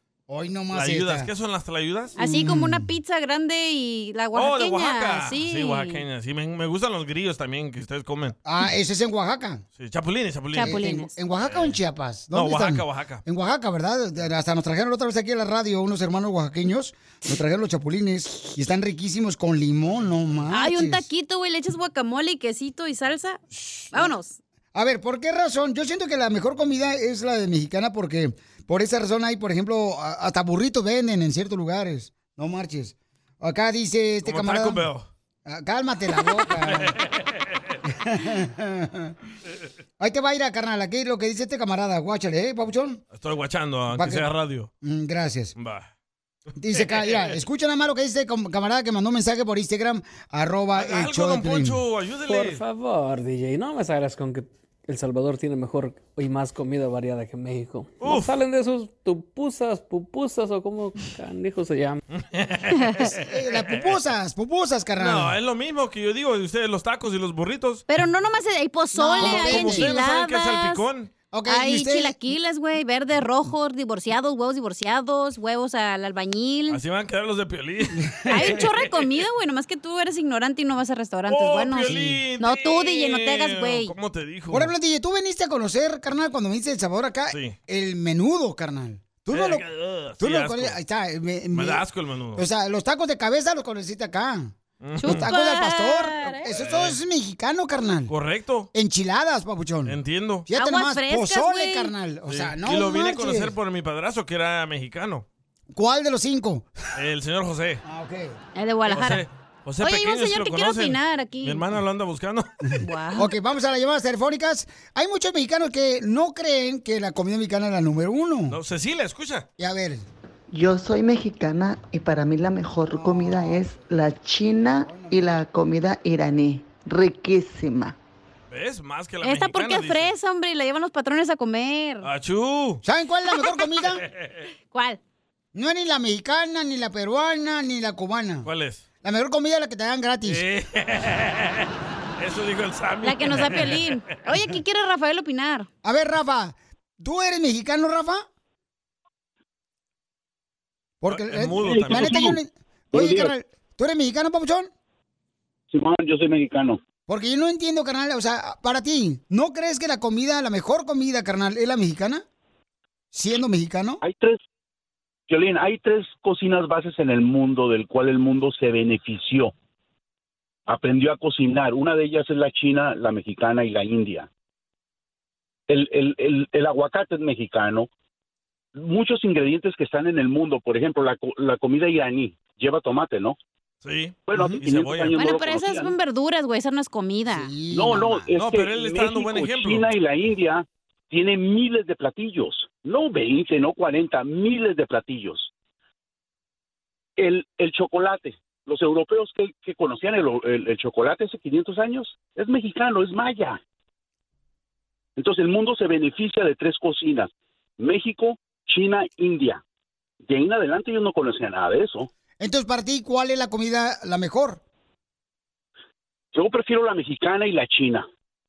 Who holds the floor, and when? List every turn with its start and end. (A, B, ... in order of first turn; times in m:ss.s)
0:00.3-0:01.3 A
0:00.7-0:02.1 B
0:02.2-0:06.0 C
0:02.2-0:02.9 A
0:04.3-0:08.4 B
0:08.4-0:09.6 A
0:09.8-0:10.8 B
0:10.5-0:11.1 C
0:10.6-0:21.0 A
0:11.4-0:11.8 B
0:12.3-0:13.2 B
0:20.5-0:24.4 C
0:24.7-0:34.8 A
0:34.2-0:35.1 B
0:35.4-0:36.9 A
0:36.6-0:37.2 B
0:37.9-0:39.1 A
0:40.0-0:43.0 A
0:43.1-0:44.7 B
0:43.9-0:44.2 A
0:44.8-0:45.5 A
0:45.6-0:45.9 B
0:46.6-0:51.8 A
0:46.7-0:47.3 B
0:50.7-0:52.6 B
0:52.2-1:02.0 D
0:58.0-0:58.3 B
1:02.1-1:03.2 B
1:03.1-1:05.3 A
1:05.0-1:07.8 B
1:07.9-1:10.8 C
1:08.9-1:09.9 A
1:09.2-1:11.1 B
1:11.3-1:12.1 A
1:11.5-1:16.8 C
1:16.7-1:18.9 B
1:18.3-1:23.9 C
1:18.3-1:18.6 A
1:21.3-1:24.7 B
1:21.8-1:22.2 A
1:24.5-1:29.6 A
1:29.3-1:30.8 B
1:30.2-1:31.8 A
1:31.5-1:32.4 B
1:32.4-1:38.1 A
1:34.8-1:35.3 B
1:35.0-1:36.4 C
1:36.5-1:37.0 B
1:38.1-1:38.7 B
1:38.7-1:40.0 A
1:39.8-1:40.5 B
1:40.5-1:43.5 A
1:40.5-1:41.9 C
1:42.3-1:45.2 B
1:45.7-1:46.7 A
1:47.0-1:47.8 B
1:47.8-1:48.4 A
1:48.6-1:49.2 C
1:48.9-1:52.5 B
1:49.8-1:51.6 C
1:52.8-1:53.3 C
1:53.2-1:58.6 A
1:58.5-1:59.5 B
1:59.6-2:00.0 A
2:00.5-2:08.0 E
2:02.9-2:03.8 A
2:04.8-2:05.4 A
2:08.5-2:10.1 B
2:09.2-2:12.1 C
2:12.0-2:12.8 B
2:12.8-2:14.0 A
2:14.7-2:15.0 C
2:15.5-2:18.5 A
2:18.4-2:18.8 B
2:19.0-2:20.4 A
2:20.2-2:23.8 B
2:23.0-2:25.7 C
2:25.8-2:28.2 A
2:31.0-2:34.7 A
2:31.1-2:32.3 B
2:31.6-2:32.4 F
2:32.9-2:33.3 F
2:35.7-2:36.8 F
2:37.1-2:42.2 A
2:43.1-2:44.0 A
2:44.0-2:44.4 F
2:45.3-2:49.5 F
2:50.7-2:54.3 F
2:55.7-2:57.9 F
2:58.7-3:03.4 F
3:03.8-3:05.1 B
3:04.3-3:05.9 F
3:05.1-3:07.5 C
3:07.3-3:08.2 A
3:07.7-3:15.5 F
3:08.4-3:09.9 B
3:17.2-3:23.6 F
3:25.2-3:29.6 F
3:30.2-3:32.1 F
3:32.4-3:34.6 A
3:36.3-3:38.1 F